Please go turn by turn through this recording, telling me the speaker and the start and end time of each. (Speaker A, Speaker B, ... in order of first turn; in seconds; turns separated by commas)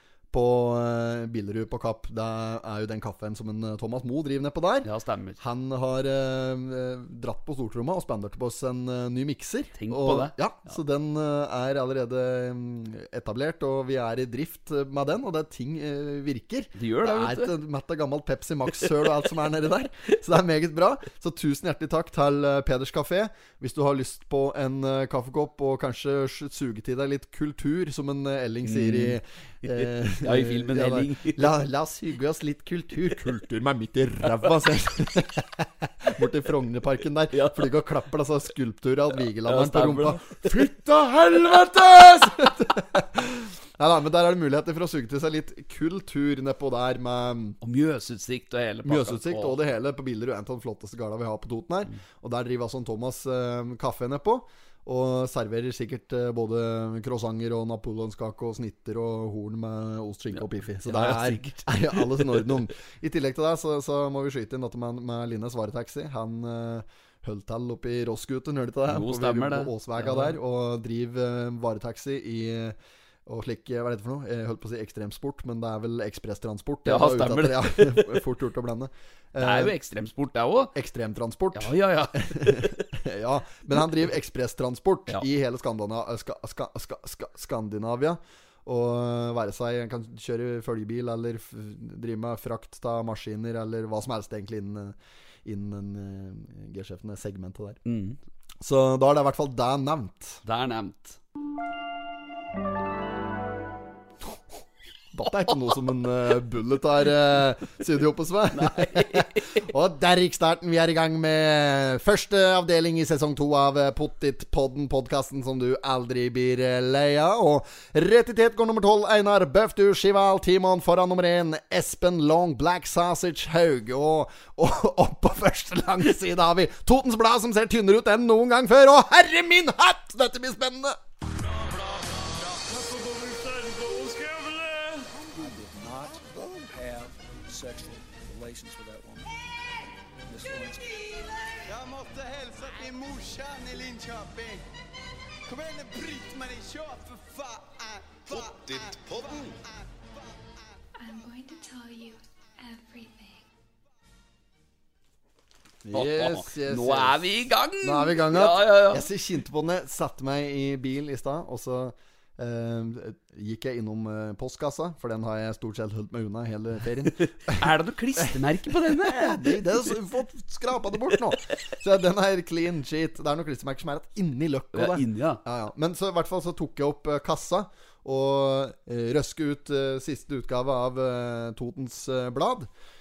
Speaker A: 0.3-4.9, Speaker B: 4.8-5.4, Speaker A: 5.4-47.6, Speaker B: 9.8-10.3, Speaker B: 16.8-17.5, Speaker B: 28.6-31.5, Speaker B: 37.3-37.7, Speaker B: 39.4-40.5, Speaker B: 47.6-49.6, Speaker A: 48.9-79.7, Speaker B: 60.9-62.4, Speaker B: 68.9-70.4, Speaker B: 76.9-78.2, Speaker B: 79.4-80.7, Speaker A: 80.7-97.8, Speaker B: 81.5-82.9, Speaker B: 97.8-98.2, Speaker A: 98.6-100.4, Speaker B: 100.5-101.2, Speaker A: 105.1-131.0, Speaker B: 108.5-109.6, Speaker C: 131.2-135.2, Speaker D: 135.3-139.3, Speaker D: 140.3-141.5, Speaker C: 141.7-144.7, Speaker C: 145.5-150.1, Speaker E: 151.0-153.5, Speaker A: 155.8-157.3, Speaker B: 155.9-159.1, Speaker A: 157.8-182.7, Speaker B: 167.1-169.8, Speaker B: 174.7-175.4